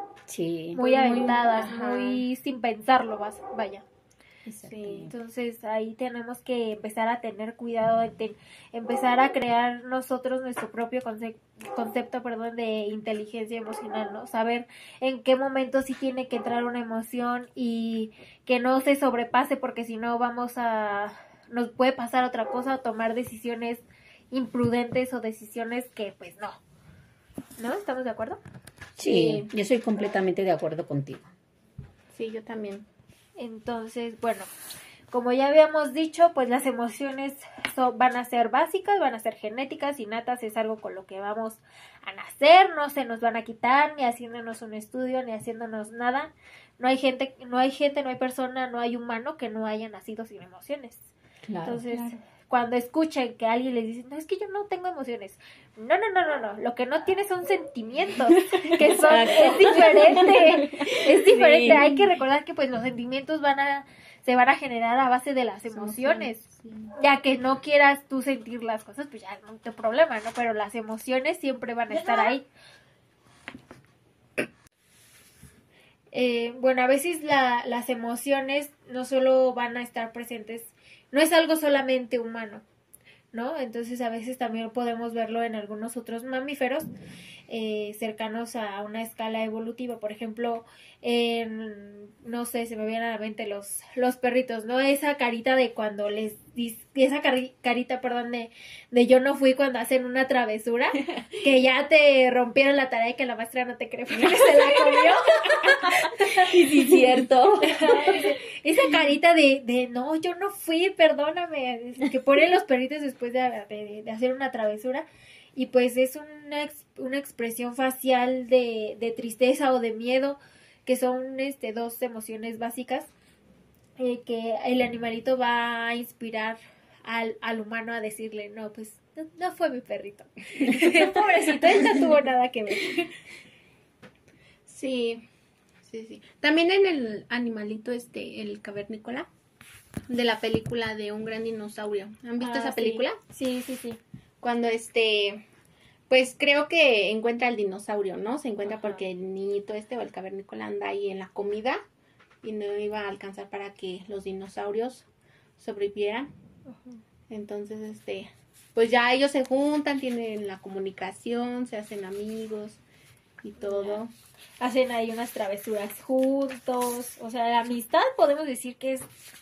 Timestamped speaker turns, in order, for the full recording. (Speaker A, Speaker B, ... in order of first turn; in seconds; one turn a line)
Speaker A: 0.3-0.8
Speaker B: 0.7-3.8
Speaker C: 0.8-2.2
Speaker A: 4.5-5.1
Speaker C: 4.6-5.1
Speaker B: 5.1-26.6
Speaker B: 27.6-28.4
Speaker A: 29.0-31.3
Speaker C: 29.0-29.5
Speaker C: 32.1-32.9
Speaker B: 33.4-34.5
Speaker B: 35.1-51.1
Speaker A: 51.5-51.8
Speaker B: 51.6-66.4
Speaker A: 58.9-62.0
Speaker C: 65.7-66.9
Speaker B: 67.0-72.4
Speaker C: 71.9-72.3
Speaker B: 76.1-82.6
Speaker B: 83.3-86.9
Speaker B: 87.5-115.0
Speaker A: 105.7-108.2
Speaker B: 115.5-123.1
Speaker B: 124.0-133.1
Speaker C: 134.7-135.2
Speaker C: 135.8-139.3
Speaker C: 140.1-143.2
Speaker B: 142.4-144.0
Speaker C: 144.4-145.4
Speaker C: 146.1-151.8
Speaker B: 148.7-149.0
Speaker C: 152.4-155.1
Speaker C: 155.6-156.3
Speaker B: 156.7-157.0
Speaker C: 157.3-162.8
Speaker C: 163.4-164.1
Speaker B: 163.6-164.0
Speaker B: 164.6-169.1